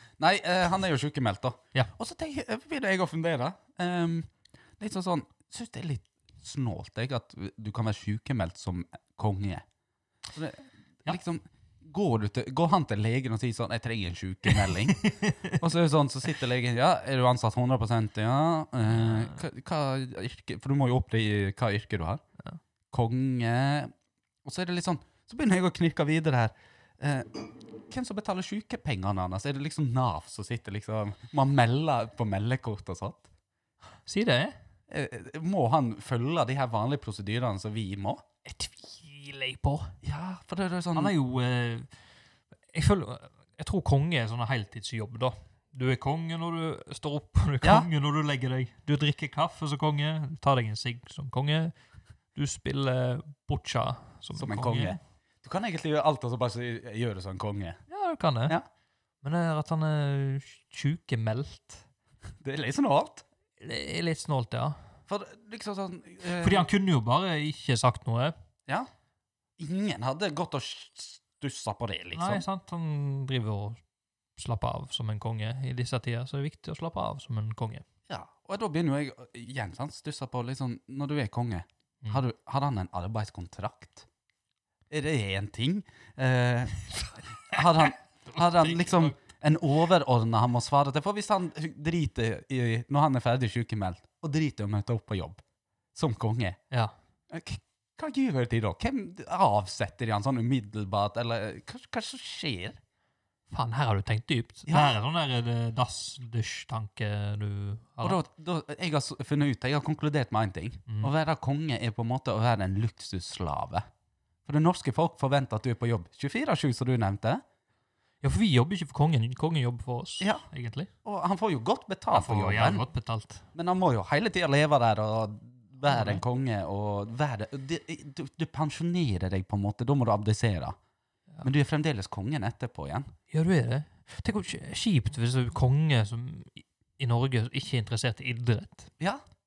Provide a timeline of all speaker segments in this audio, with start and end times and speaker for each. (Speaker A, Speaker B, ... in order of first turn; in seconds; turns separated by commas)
Speaker A: 0.2-9.6, Speaker A: 10.3-15.0, Speaker B: 14.5-15.6, Speaker A: 15.6-22.2, Speaker B: 18.9-19.4, Speaker A: 22.9-23.9, Speaker A: 24.4-33.3, Speaker B: 34.0-34.5, Speaker A: 34.9-38.2, Speaker B: 38.5-40.0, Speaker A: 40.0-41.1, Speaker B: 40.9-41.9, Speaker B: 42.7-51.7, Speaker A: 47.6-47.9, Speaker B: 52.3-55.0, Speaker A: 54.4-57.8, Speaker B: 57.9-58.6, Speaker B: 59.2-61.8, Speaker A: 62.4-63.2, Speaker B: 63.6-64.8, Speaker A: 65.1-66.7, Speaker B: 66.4-68.3, Speaker A: 69.6-72.4, Speaker B: 72.1-73.8, Speaker B: 74.4-77.8, Speaker A: 78.1-84.0, Speaker A: 84.9-86.8, Speaker A: 87.4-95.4, Speaker B: 88.4-89.1, Speaker A: 95.9-96.6, Speaker A: 97.3-102.8, Speaker B: 103.5-108.2, Speaker A: 104.7-105.0, Speaker A: 108.0-113.8, Speaker B: 110.9-111.1, Speaker A: 114.5-117.4, Speaker B: 118.2-120.9, Speaker A: 120.2-120.4, Speaker A: 121.0-122.8, Speaker B: 122.1-123.5, Speaker A: 123.5-130.8, Speaker B: 125.9-126.2, Speaker A: 131.4-133.1, Speaker B: 133.3-138.9